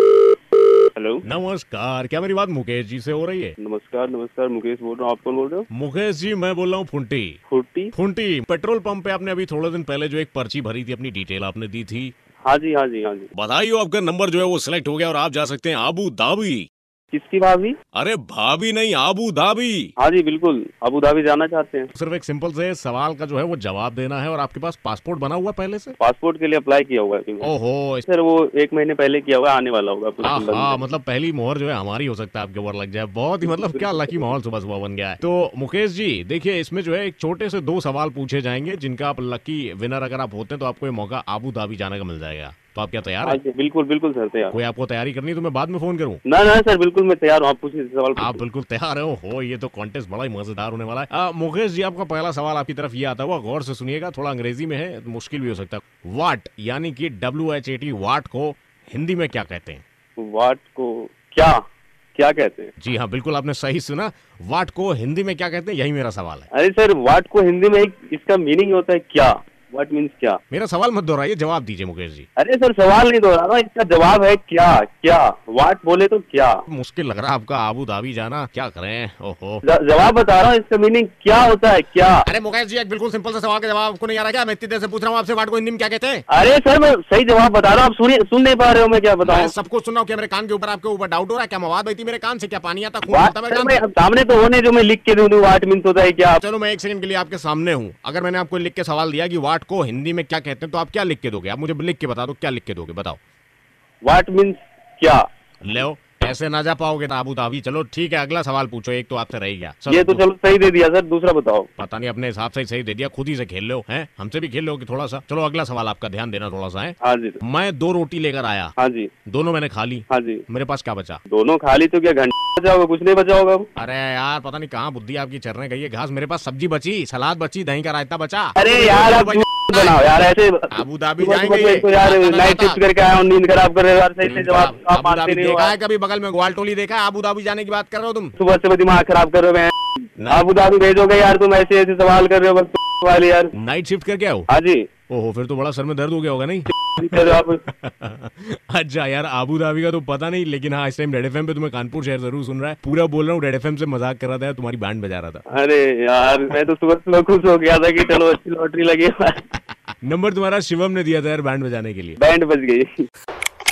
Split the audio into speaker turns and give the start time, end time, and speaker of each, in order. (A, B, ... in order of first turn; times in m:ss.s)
0:00.9-0:01.2 A
0:01.2-0:03.5 B
0:03.6-0:05.6 A
0:05.7-0:07.4 B
0:07.5-0:07.9 A
0:07.9-0:12.1 B
0:12.4-0:13.3 A
0:13.3-0:16.7 B
0:17.1-0:17.8 A
0:17.9-0:19.9 B
0:20.0-0:21.9 A
0:21.9-0:25.9 B
0:26.0-0:27.5 A
0:27.4-0:28.0 B
0:28.0-0:30.8 A
0:30.2-0:43.4 B
0:33.5-0:34.2 A
0:43.2-0:44.5 A
0:44.5-0:46.2 B
0:46.2-0:48.4 A
0:48.2-0:59.8 B
1:00.2-1:01.6 A
1:02.1-1:02.7 A
1:02.8-1:06.5 B
1:06.5-1:10.4 A
1:10.5-1:12.3 B
1:12.4-1:16.6 A
1:16.7-1:19.6 B
1:19.6-1:22.2 A
1:22.2-1:26.2 B
1:26.3-1:29.5 A
1:29.2-1:33.8 B
1:33.1-1:36.4 A
1:36.4-1:43.2 B
1:44.0-1:45.2 A
1:45.6-1:50.2 B
1:49.9-1:51.7 A
1:51.8-1:58.7 B
1:57.0-1:57.4 A
1:58.8-1:59.1 A
1:59.3-2:01.2 B
2:00.1-2:00.4 A
2:01.3-2:03.7 A
2:03.8-2:10.0 B
2:08.6-2:15.7 A
2:10.7-2:12.8 B
2:14.2-2:18.3 B
2:18.4-2:19.8 A
2:20.2-2:20.5 B
2:20.3-2:23.5 A
2:23.6-2:24.5 B
2:24.5-2:24.9 A
2:25.1-2:35.4 B
2:27.0-2:27.6 A
2:35.5-2:39.4 A
2:40.0-2:42.2 B
2:42.2-2:43.0 A